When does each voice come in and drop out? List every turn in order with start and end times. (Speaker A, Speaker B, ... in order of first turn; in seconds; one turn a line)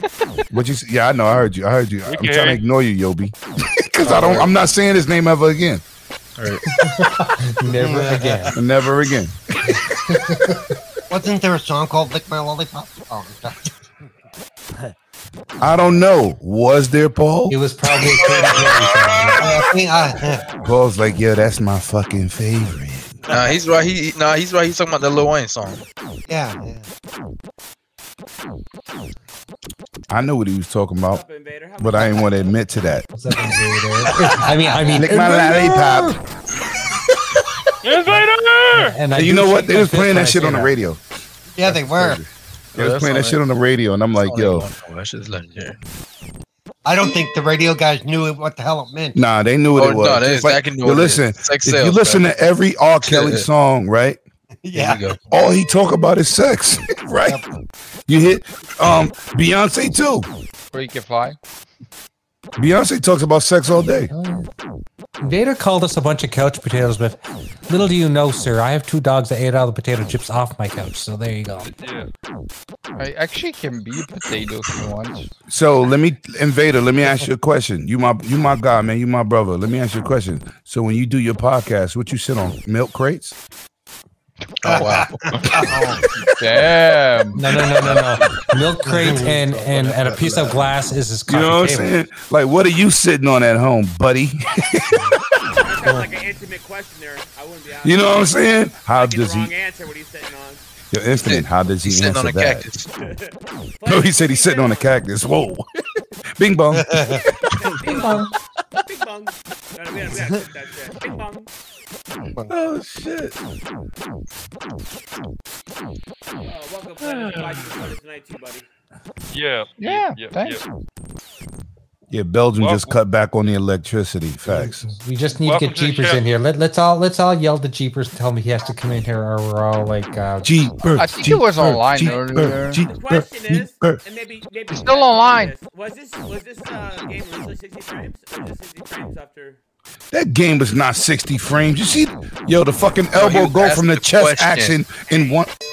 Speaker A: 0.5-5.8
Speaker B: 2.1-2.6
Speaker C: 4.0-4.5
Speaker D: 6.7-8.6
Speaker E: 7.7-8.6
Speaker A: 8.5-9.8
Speaker D: 9.7-10.7
Speaker E: 11.1-13.7
Speaker A: 15.6-17.6
Speaker D: 17.5-19.6
Speaker E: 19.4-20.4
Speaker A: 20.6-23.2
Speaker C: 23.3-25.8
Speaker E: 26.3-26.9
Speaker A: 30.1-31.2
Speaker F: 31.0-32.5
Speaker A: 31.8-33.0
Speaker D: 33.1-36.2
Speaker E: 34.0-34.8
Speaker A: 34.9-36.2
Speaker B: 37.8-39.0
Speaker D: 38.7-40.7
Speaker A: 39.1-41.0
Speaker E: 41.5-42.2
Speaker A: 41.6-44.7
Speaker C: 42.8-43.4
Speaker C: 44.2-45.8
Speaker E: 46.8-49.2
Speaker A: 49.1-54.2
Speaker C: 49.8-52.2
Speaker C: 53.0-53.5
Speaker E: 54.6-55.1
Speaker C: 54.7-55.2
Speaker A: 55.3-57.4
Speaker A: 58.1-60.3
Speaker G: 60.7-61.4
Speaker A: 62.6-64.1
Speaker D: 64.1-64.5
Speaker D: 65.2-71.7
Speaker B: 71.6-72.1
Speaker G: 73.0-75.3
Speaker A: 75.5-83.4
Speaker C: 84.6-85.7
Speaker E: 84.7-86.1
Speaker G: 86.3-87.6
Speaker D: 87.3-91.9
Speaker E: 88.8-89.4
Speaker C: 89.3-90.6
Speaker A: 91.3-95.0
Speaker F: 95.6-100.6
Speaker A: 97.8-99.5
Speaker A: 100.9-102.7
Speaker C: 101.2-102.9
Speaker F: 103.0-105.0
Speaker A: 103.8-105.7
Speaker A: 106.4-107.2
Speaker E: 106.7-107.3
Speaker F: 107.5-108.3
Speaker D: 107.8-108.3
Speaker F: 108.8-111.5
Speaker A: 112.5-113.3
Speaker F: 116.4-118.7
Speaker B: 117.0-117.7
Speaker B: 119.3-120.6
Speaker G: 119.8-120.6
Speaker A: 122.1-124.8
Speaker B: 122.6-122.9
Speaker D: 124.5-130.5
Speaker B: 125.4-126.2
Speaker A: 130.4-134.0
Speaker G: 130.9-132.8
Speaker F: 132.0-132.3
Speaker F: 132.8-139.6
Speaker G: 134.7-135.5
Speaker A: 140.1-145.5
Speaker C: 143.1-144.8
Speaker F: 145.1-145.4